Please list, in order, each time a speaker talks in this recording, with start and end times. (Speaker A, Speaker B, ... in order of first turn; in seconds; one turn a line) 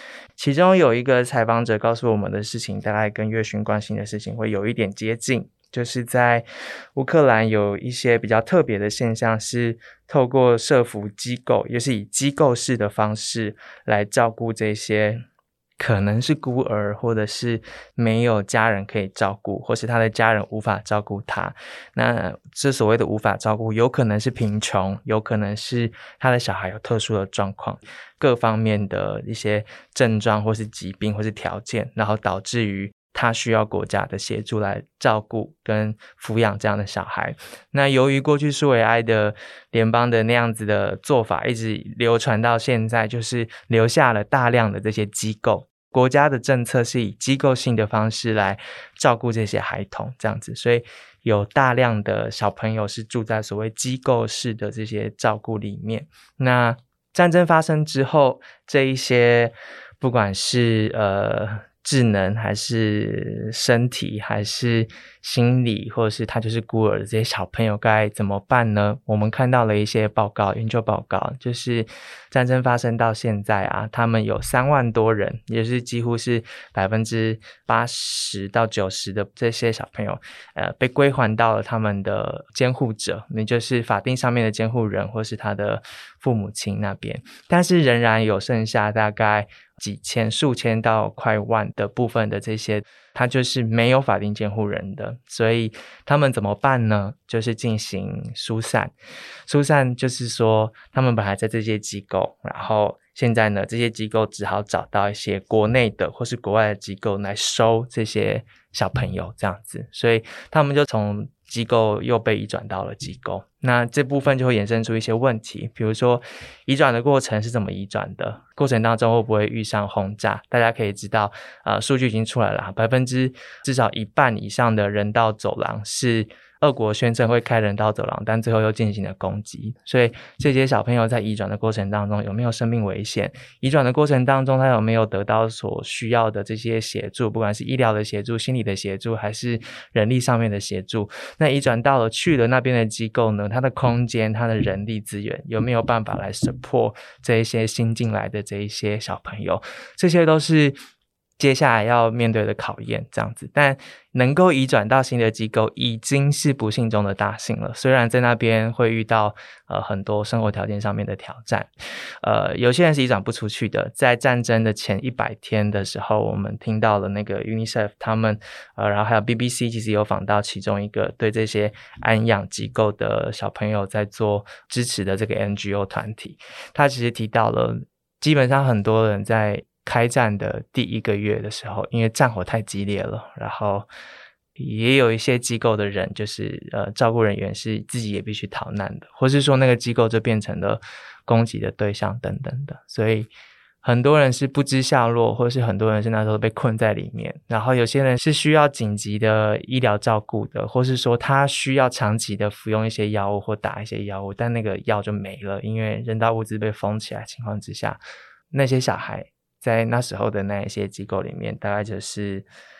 Speaker A: 0.4-15.2
Speaker A: 15.8-98.9
Speaker A: 99.5-150.8
Speaker A: 151.4-161.7
Speaker A: 162.2-183.9
Speaker A: 184.6-193.3
Speaker A: 193.8-208.0
Speaker A: 208.5-212.5